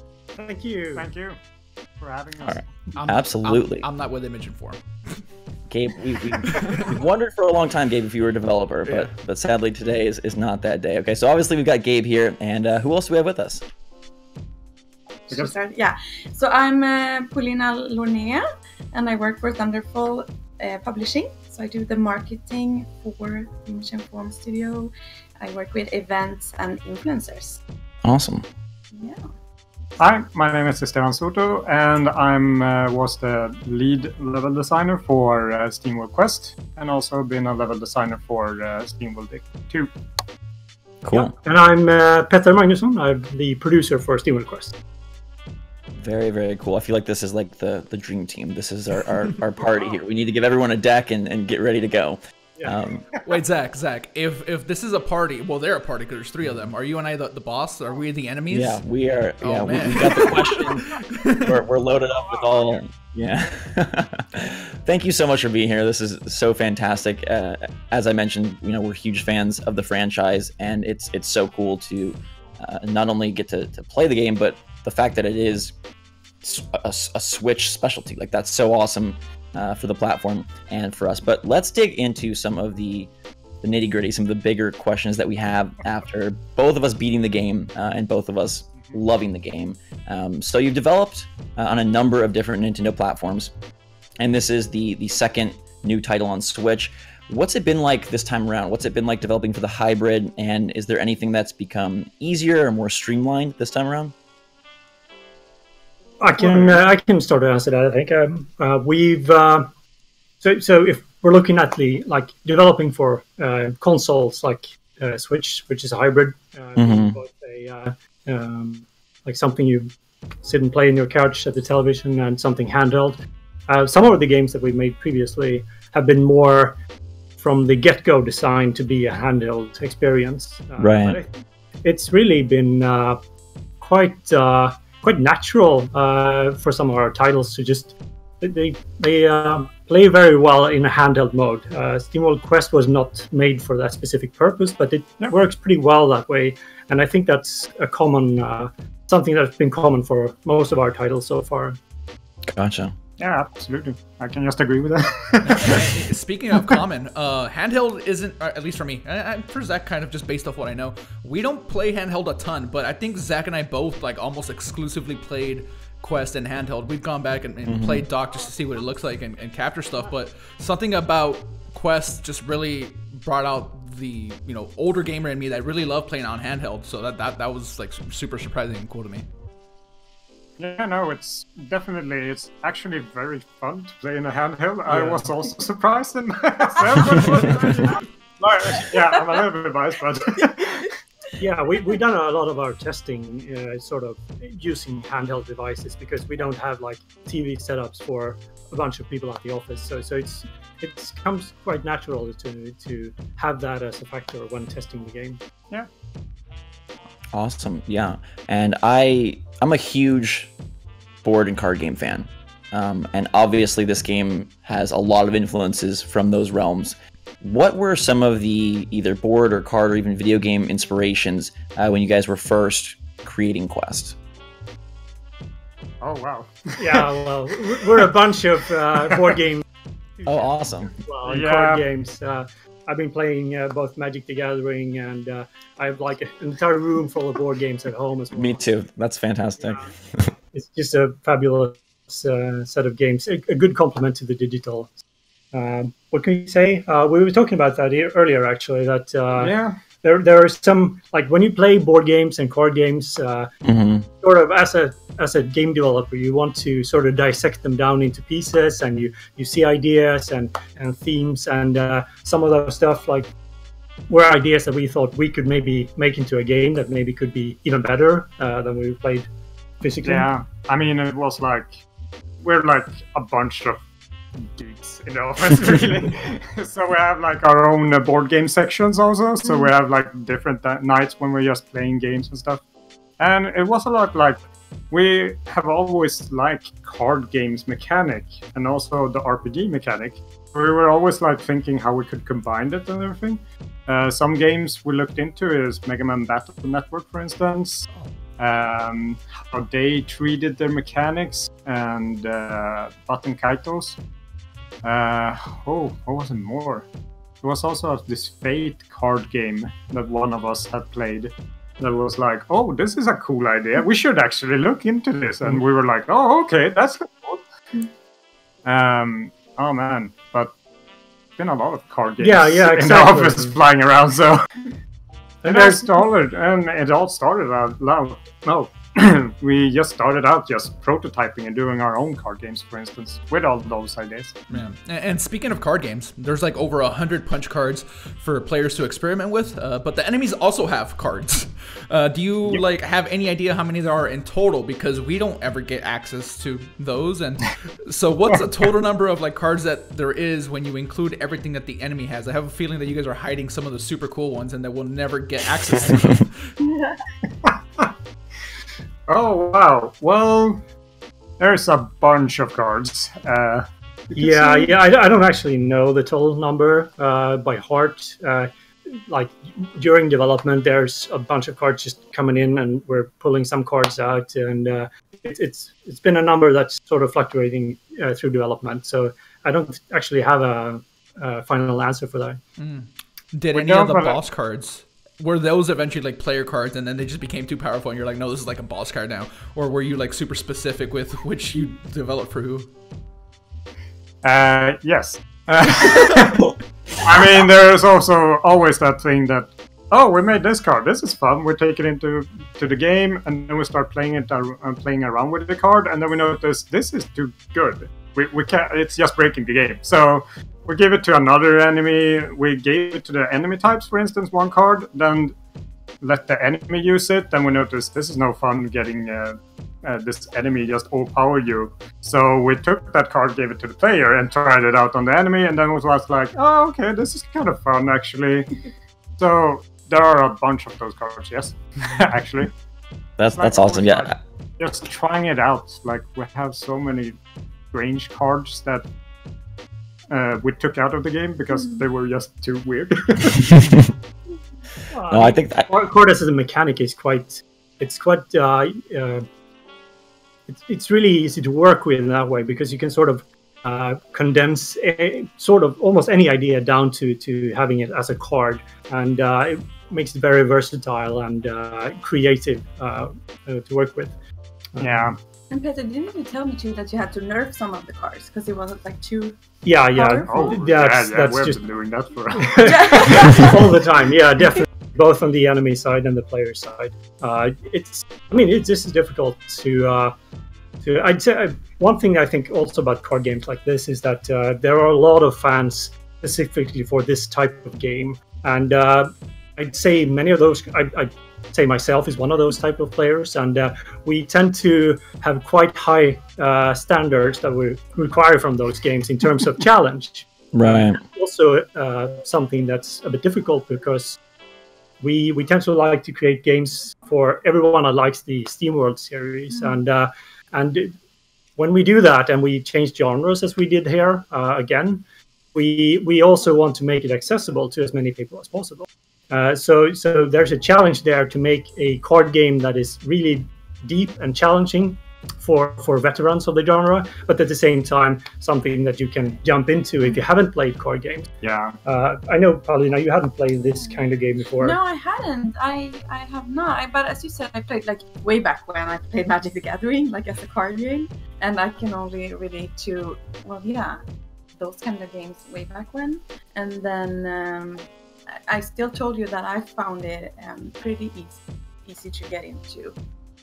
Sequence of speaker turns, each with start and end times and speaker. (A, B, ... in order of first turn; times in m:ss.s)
0:00.4-0:01.0 A
0:00.9-0:01.4 B
0:02.0-0:02.6 B
0:02.4-0:03.8 C
0:03.0-0:04.8 D
0:05.7-0:13.6 C
0:06.4-0:06.9 D
0:15.3-0:27.6 E
0:28.0-0:28.5 C
0:28.9-0:29.2 E
0:30.0-0:39.9 B
0:41.0-0:41.3 C
0:41.1-0:44.8 A
0:46.0-0:53.0 C
0:53.2-0:58.8 D
0:56.4-0:56.7 C
0:58.5-1:15.7 C
0:59.4-1:01.5 D
1:16.4-1:23.1 C
1:23.6-1:33.5 C
1:34.2-1:44.1 C
1:46.2-1:49.7 A
1:46.4-1:46.8 B
1:50.4-1:59.9 A
1:56.8-1:57.2 C
2:00.4-2:06.8 A
2:07.4-2:11.3 A
2:10.8-2:11.2 C
2:11.8-2:13.2 A
2:13.8-2:31.8 A
2:32.4-2:32.9 C
2:33.2-2:35.8 B
2:35.4-2:59.2 D
2:47.6-2:48.0 C
3:00.6-3:10.9 B
3:04.9-3:05.2 A
3:11.4-3:25.4 A
3:27.3-3:30.5 C
3:31.2-3:44.2 C
3:46.0-3:47.2 B
3:46.8-3:49.6 A
3:50.2-3:58.6 A
3:50.2-3:51.0 C
3:51.2-3:51.8 B
3:58.3-4:00.3 C
3:59.6-3:59.9 A
4:00.5-4:04.9 A
4:05.5-4:13.5 A
4:09.4-4:09.8 B
4:13.6-4:14.1 C
4:14.2-4:23.3 A
4:24.1-4:29.3 A
4:29.8-4:30.3 A
4:30.0-4:31.8 B
4:32.4-4:33.8 B
4:34.4-4:42.6 B
4:43.2-5:04.0 B
5:04.8-5:06.9 B
5:07.4-5:17.4 B
5:18.6-5:20.5 B
5:21.4-5:24.7 B
5:22.2-5:23.6 A
5:25.4-5:25.9 A
5:25.4-5:34.4 B
5:34.5-5:56.5 D
5:57.4-5:57.9 B
5:59.1-6:00.6 B
6:01.4-6:04.1 B
6:04.1-6:22.4 A
6:22.6-6:32.7 D
6:23.5-6:24.2 B
6:34.2-6:55.3 B
6:56.0-7:08.5 B
7:09.2-7:12.5 B
7:13.2-7:14.2 C
7:13.3-7:17.2 B
7:17.7-7:18.8 B
7:20.1-7:23.6 B
7:21.5-7:21.8 E
7:23.5-7:23.8 C
7:24.9-7:29.3 A
7:25.1-7:25.7 C
7:30.5-7:44.1 A
7:44.7-7:45.1 A
7:44.8-7:45.2 B
7:45.5-7:49.4 E
7:49.6-7:51.6 A
7:49.9-7:50.6 E
7:50.3-7:53.0 B
7:52.4-8:00.1 A
7:52.6-7:53.6 E
8:00.8-8:24.2 A
8:20.5-8:21.0 C
8:25.0-8:30.9 A
8:31.6-8:51.3 A
8:51.4-8:51.8 B
8:51.8-8:54.8 A
8:54.6-9:04.0 E
9:04.6-9:07.9 E
9:08.5-9:13.0 E